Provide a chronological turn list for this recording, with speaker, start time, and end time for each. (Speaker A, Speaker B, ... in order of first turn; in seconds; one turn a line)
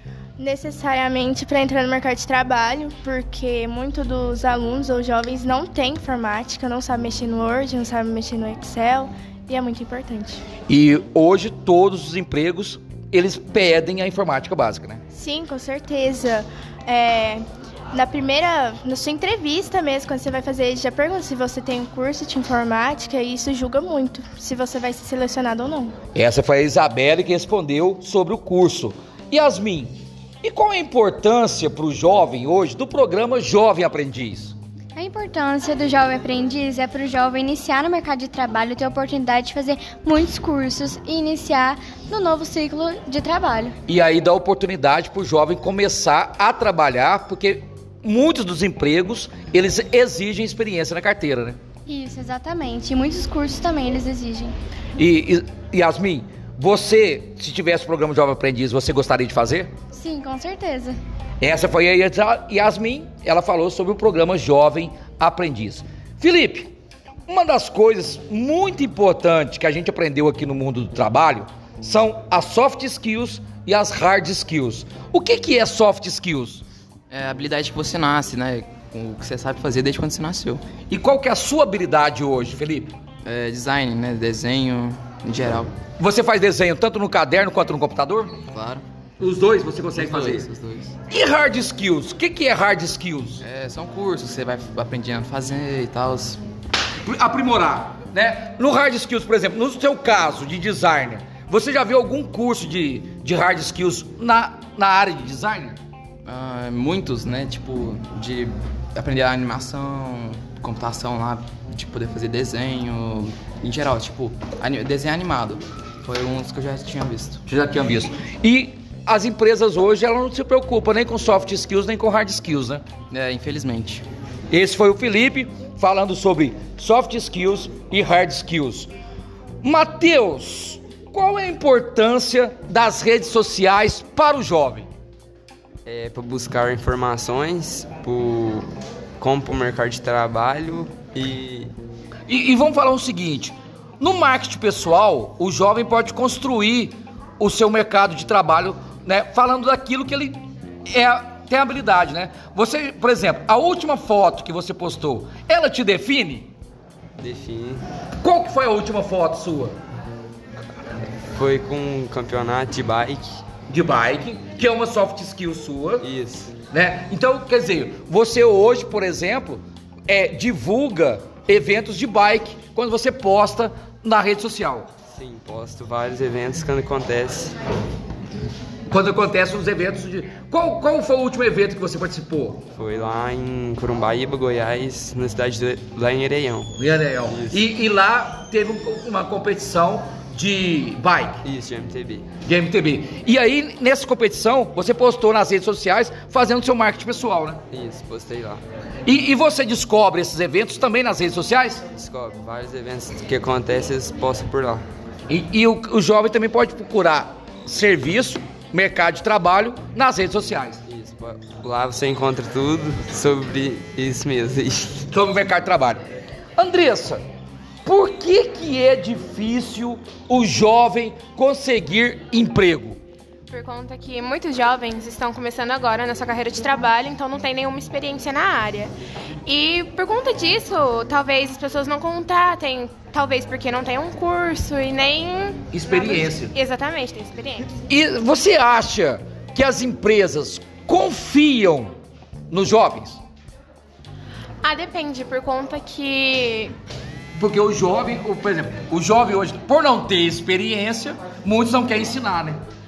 Speaker A: 0.4-10.4
Speaker B: 10.7-15.0
Speaker A: 15.1-25.9
Speaker B: 26.1-34.5
Speaker C: 35.0-43.8
Speaker B: 43.9-51.6
Speaker C: 51.9-54.5
Speaker B: 55.0-59.7
Speaker C: 59.9-61.0
Speaker B: 61.4-66.7
Speaker B: 67.3-76.7
Speaker D: 77.1-80.6
Speaker B: 80.9-83.0
Speaker D: 83.2-85.7
Speaker B: 86.0-88.3
Speaker D: 88.5-88.9
Speaker B: 89.2-90.5
Speaker D: 89.9-91.0
Speaker B: 91.1-93.4
Speaker D: 93.4-96.4
Speaker B: 97.0-105.8
Speaker D: 106.2-117.4
Speaker B: 117.5-122.8
Speaker D: 123.1-124.0
Speaker B: 124.5-128.9
Speaker B: 129.6-134.9
Speaker E: 135.8-138.7
Speaker E: 139.2-141.7
Speaker B: 142.3-156.5
Speaker E: 157.2-157.8
Speaker B: 158.2-159.8
Speaker E: 161.3-163.4
Speaker B: 163.7-166.1
Speaker E: 166.0-166.6
Speaker B: 166.7-174.9
Speaker E: 175.1-177.6
Speaker B: 178.9-182.7
Speaker E: 182.7-186.7
Speaker B: 186.8-191.4
Speaker E: 187.3-187.6
Speaker E: 191.4-192.3
Speaker B: 192.4-197.6
Speaker E: 197.7-198.6
Speaker B: 199.1-201.8
Speaker E: 201.9-204.8
Speaker B: 205.3-210.8
Speaker E: 210.9-215.1
Speaker B: 215.1-216.0
Speaker B: 216.6-217.2
Speaker B: 217.8-223.0
Speaker F: 223.5-228.9
Speaker F: 229.4-237.8
Speaker B: 235.7-236.5
Speaker B: 237.9-241.9
Speaker B: 242.5-243.2
Speaker F: 244.6-246.8
Speaker B: 247.3-252.6